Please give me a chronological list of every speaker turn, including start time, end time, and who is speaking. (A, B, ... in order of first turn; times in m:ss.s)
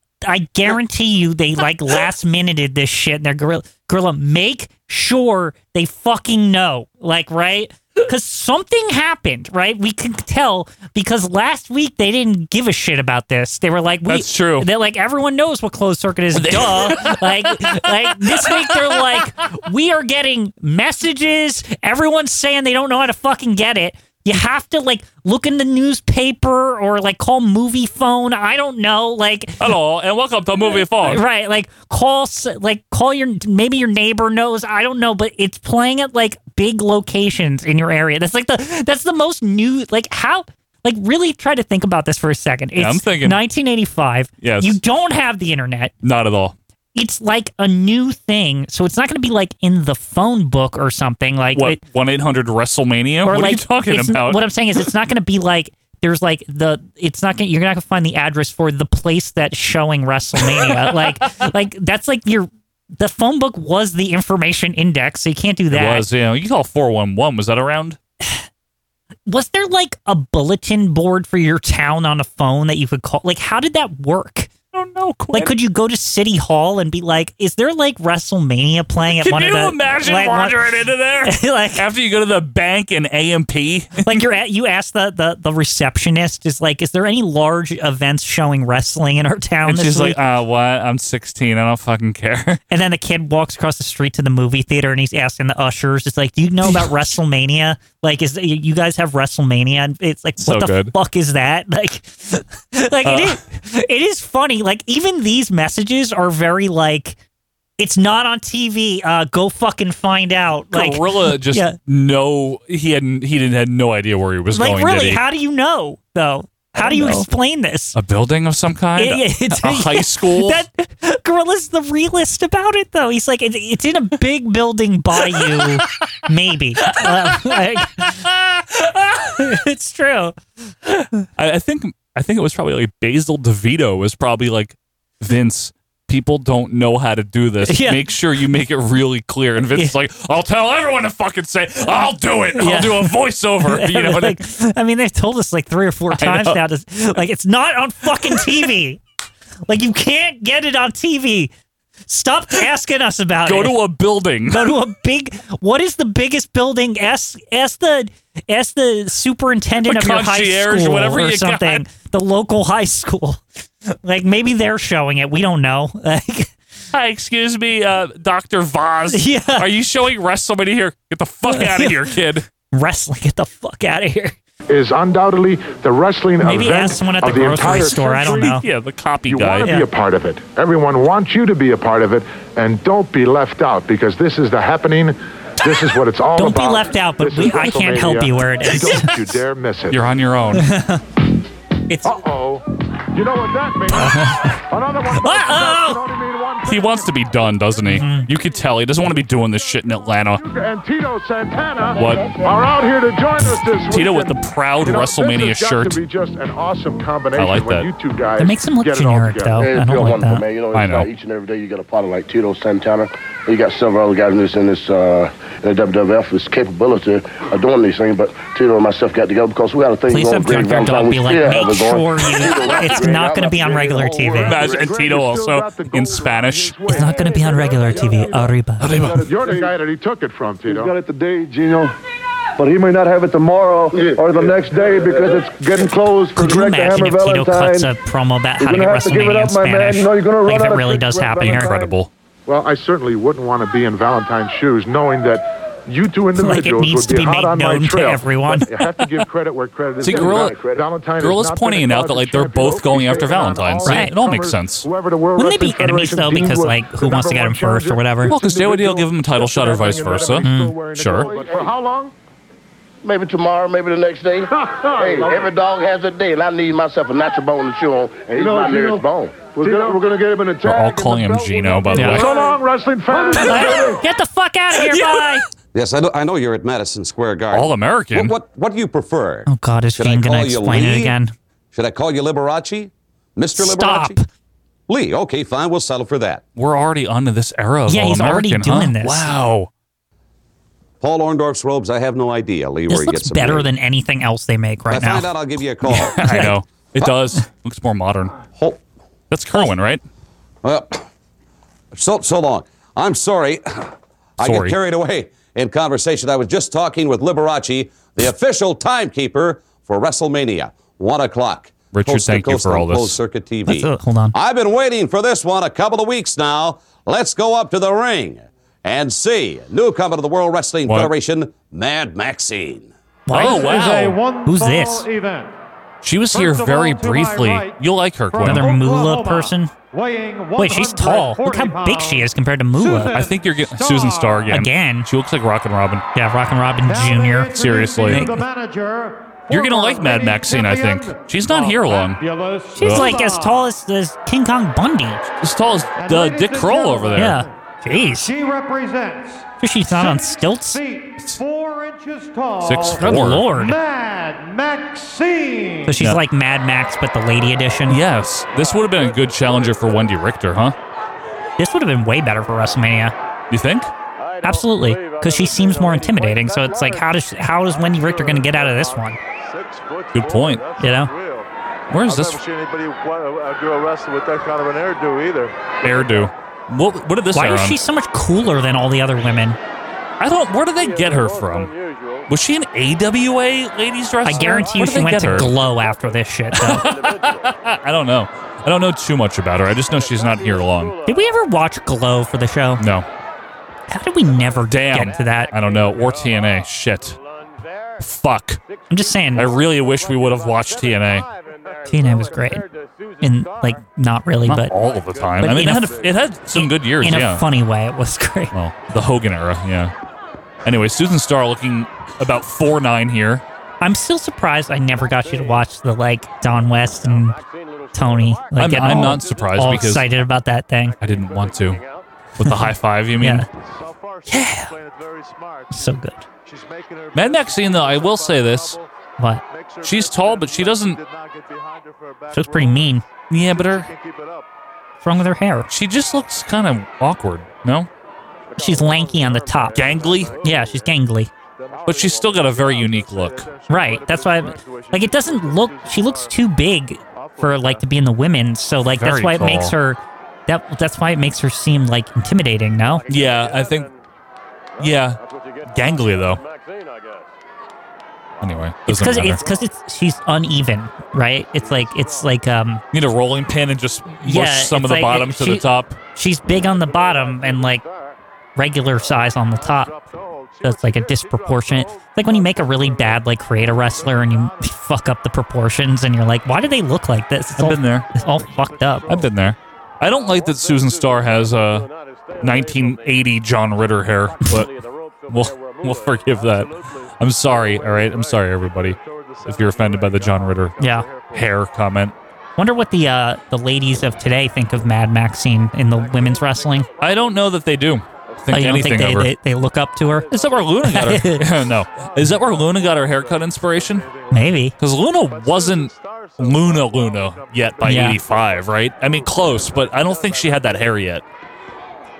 0:00.2-0:29.7 A
0:14.0-0:14.7 B
0:16.3-0:19.3 B
0:29.6-0:31.2 B
0:31.0-0:45.9 A
0:42.8-0:43.4 B
0:44.4-0:44.8 B
0:46.0-0:46.6 B
0:46.9-0:51.8 A
0:51.5-0:54.4 B
0:53.2-1:06.0 A
1:00.4-1:01.2 B
1:05.7-1:08.0 B
1:09.3-1:14.5 A
1:14.7-1:15.5 B
1:15.3-1:20.6 A
1:19.1-1:24.1 B
1:21.2-1:21.8 A
1:24.0-1:30.2 A
1:29.6-1:32.6 B
1:32.7-1:47.2 A
1:36.6-1:36.9 B
1:40.4-1:40.9 B
1:43.0-1:43.4 B
1:47.8-1:51.8 A
1:50.7-1:55.2 B
1:54.5-1:58.0 A
1:56.7-1:57.3 B
1:57.9-2:00.6 B
1:59.0-2:08.2 A
2:05.3-2:05.7 B
2:06.9-2:08.3 B
2:09.4-2:10.4 A
2:10.9-2:24.4 B
2:17.6-2:18.0 A
2:22.6-2:29.0 A
2:26.1-2:26.6 B
2:28.1-2:28.7 B
2:29.7-2:31.5 A
2:32.1-2:33.8 A
2:33.4-2:34.8 B
2:34.5-2:46.5 A
2:39.8-2:41.8 B
2:46.9-2:52.4 B
2:49.1-2:49.7 A
2:51.5-2:52.1 A
2:52.7-2:54.3 A
2:54.7-2:58.6 C
2:56.4-2:58.7 A
2:58.3-2:59.7 B
2:59.2-3:10.1 C
3:06.4-3:09.1 A
3:09.9-3:10.7 B
3:10.5-3:11.0 A
3:11.9-3:12.2 A
3:12.0-3:17.1 C
3:13.9-3:14.6 A
3:15.2-3:16.0 A
3:16.6-3:20.4 B
3:17.8-3:18.3 A
3:20.4-3:29.6 C
3:21.9-3:22.4 B
3:23.9-3:26.0 B
3:27.4-3:27.9 B
3:28.4-3:30.4 A
3:29.6-3:43.5 D
3:30.7-3:31.1 B
3:40.1-3:44.7 A
3:43.5-3:44.1 E
3:44.4-3:48.4 C
3:44.4-3:46.9 B
3:46.9-3:49.1 A
3:48.8-3:49.3 B
3:48.9-3:49.7 E
3:49.2-3:50.9 C
3:50.6-3:51.9 E
3:52.6-3:57.9 E
3:56.3-4:01.8 A
3:58.6-4:01.9 E
4:01.4-4:02.1 B
4:02.5-4:22.1 C
4:06.4-4:08.7 A
4:10.0-4:10.6 B
4:11.2-4:14.8 B
4:13.8-4:14.2 A
4:15.4-4:18.4 A
4:18.3-4:21.3 B
4:20.4-4:20.8 A
4:21.3-4:21.7 E
4:23.0-4:29.5 D
4:28.3-4:29.0 E
4:29.5-4:31.6 E
4:29.6-4:34.0 C
4:30.6-4:32.3 B
4:31.9-4:32.3 A
4:32.2-4:32.6 E
4:33.3-4:35.5 A
4:33.5-4:33.8 B
4:34.7-4:35.4 B
4:35.7-4:41.2 F
4:37.5-4:38.3 B
4:39.4-4:41.3 A
4:41.7-4:44.2 F
4:43.6-4:44.2 A
4:44.9-4:46.4 F
4:46.6-4:49.7 B
4:47.9-4:49.3 A
4:51.0-4:53.7 F
4:52.9-4:55.3 A
4:54.9-4:56.3 F
4:55.8-4:56.5 A
4:55.9-4:58.3 B
4:58.5-4:58.8 F
4:59.3-5:00.0 B
5:00.6-5:01.0 F
5:01.9-5:22.9 F
5:04.4-5:04.8 B
5:11.9-5:13.2 B
5:13.6-5:14.3 A
5:20.8-5:21.1 B
5:23.2-5:23.9 A
5:23.3-5:24.2 B
5:23.3-5:25.5 G
5:24.4-5:25.1 A
5:26.0-5:28.7 B
5:26.3-5:27.8 G
5:28.3-5:34.6 G
5:28.4-5:29.7 A
5:30.6-5:33.2 A
5:33.1-5:36.0 B
5:34.5-5:35.1 A
5:36.1-5:37.5 A
5:36.8-5:43.7 G
5:37.5-5:38.2 B
5:38.1-5:38.4 A
5:39.5-5:42.2 B
5:42.8-5:45.2 A
5:42.8-5:43.1 B
5:45.4-5:47.4 B
5:46.0-5:47.5 G
5:47.2-5:48.3 A
5:48.0-5:56.0 G
5:49.6-5:50.8 A
5:52.6-5:53.5 B
5:53.0-5:53.8 A
5:55.8-5:58.0 A
5:57.9-6:00.7 B
5:58.5-5:59.7 H
6:01.6-6:03.1 A
6:03.5-6:03.9 B
6:04.2-6:11.5 H
6:04.4-6:09.2 A
6:10.1-6:10.6 B
6:10.8-6:11.1 A
6:11.9-6:12.4 B
6:12.0-6:16.3 H
6:15.8-6:17.8 B
6:17.3-6:19.6 A
6:20.2-6:21.7 B
6:20.8-6:22.3 H
6:22.3-6:25.6 B
6:24.2-6:26.9 A
6:24.8-6:26.2 H
6:26.5-6:30.9 B
6:26.8-6:27.5 H
6:29.9-6:31.1 H
6:31.0-6:32.8 A
6:32.8-6:33.1 B
6:33.9-6:35.5 A
6:34.6-6:37.2 B
6:35.5-6:36.1 H
6:38.0-6:38.6 B
6:38.9-6:39.5 A
6:39.3-6:41.3 B
6:41.3-6:42.6 H
6:41.9-6:42.6 A
6:43.2-6:44.7 A
6:44.4-6:47.4 B
6:44.7-6:46.3 H
6:45.4-6:48.5 A
6:48.5-6:49.9 B
6:50.6-6:53.4 B
6:53.8-6:57.4 A
6:55.2-6:55.6 H
6:56.6-7:02.1 H
6:57.9-7:01.0 A
6:58.6-7:00.1 B
7:01.0-7:01.8 B
7:02.4-7:03.4 B
7:02.4-7:03.5 A
7:03.5-7:08.9 H
7:04.3-7:04.7 B
7:05.7-7:06.2 A
7:07.1-7:08.8 B
7:09.4-7:14.5 H
7:09.8-7:11.0 B
7:12.3-7:13.0 A
7:13.3-7:13.9 B
7:15.0-7:15.7 A
7:15.7-7:17.9 B
7:18.5-7:21.0 H
7:18.6-7:21.3 A
7:19.7-7:20.3 B
7:21.6-7:26.4 H
7:21.8-7:23.5 B
7:23.7-7:33.1 A
7:27.1-7:27.9 H
7:28.9-7:29.7 B
7:32.8-7:34.0 H
7:33.1-7:33.9 B
7:34.8-7:35.6 H
7:34.8-7:36.4 B
7:36.2-7:37.2 H
7:38.4-7:39.4 B
7:38.8-7:42.8 A
7:41.5-7:42.4 H
7:42.9-7:46.0 B
7:44.2-7:47.8 A
7:46.5-7:48.2 H
7:48.6-7:49.9 A
7:48.9-7:54.8 H
7:50.6-7:59.2 A
7:57.6-7:58.1 B
7:57.9-7:59.6 H
7:59.0-8:01.9 B
8:00.1-8:03.1 H
8:02.4-8:04.7 B
8:04.5-8:11.7 H
8:05.3-8:10.7 B
8:10.8-8:11.1 A
8:11.3-8:12.1 B
8:12.6-8:16.9 A
8:15.9-8:17.5 H
8:17.0-8:19.3 B
8:18.3-8:19.2 H
8:18.5-8:21.5 A
8:20.0-8:31.1 H
8:20.3-8:24.0 B
8:24.3-8:24.7 A
8:24.8-8:31.2 B
8:27.8-8:28.2 A